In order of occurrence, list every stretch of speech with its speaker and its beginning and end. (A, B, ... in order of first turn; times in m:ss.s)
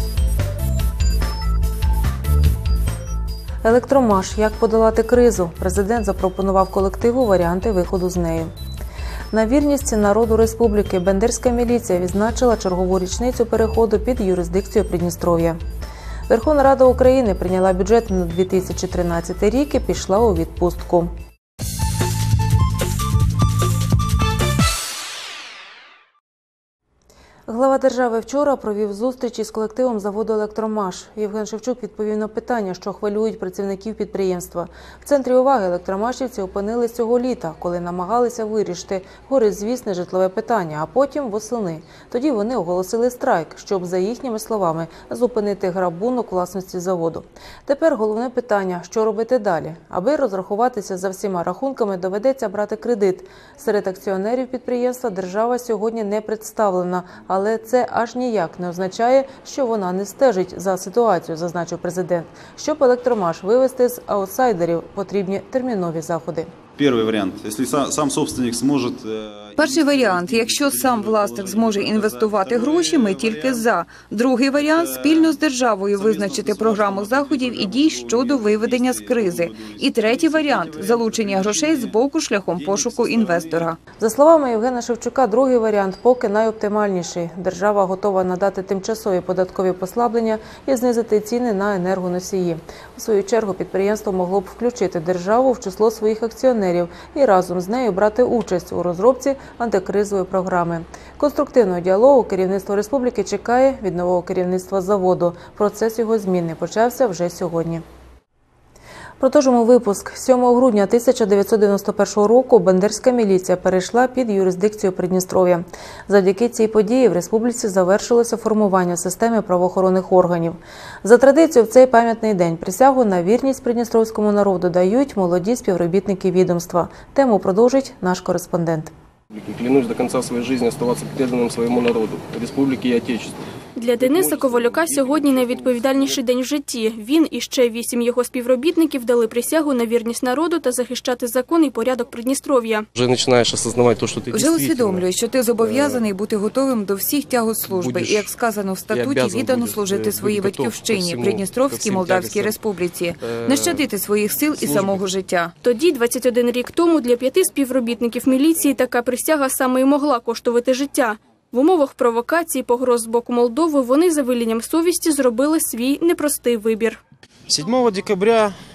0:03.6-0:08.5 A
0:09.3-0:15.6 A
0:16.3-0:21.1 A
0:27.5-1:06.5 A
1:06.8-1:13.7 B
1:09.6-1:23.8 C
1:14.6-1:15.4 B
1:15.9-1:23.7 B
1:24.0-1:47.8 A
1:49.2-2:08.9 A
2:09.3-2:13.3 D
2:13.8-2:22.9 E
2:14.2-2:15.1 D
2:22.9-2:25.1 D
2:24.3-2:35.5 C
2:25.6-2:26.0 D
2:27.7-2:28.3 D
2:28.9-2:32.6 D
2:33.3-2:33.9 D
2:34.6-2:35.0 D
2:35.6-2:47.0 E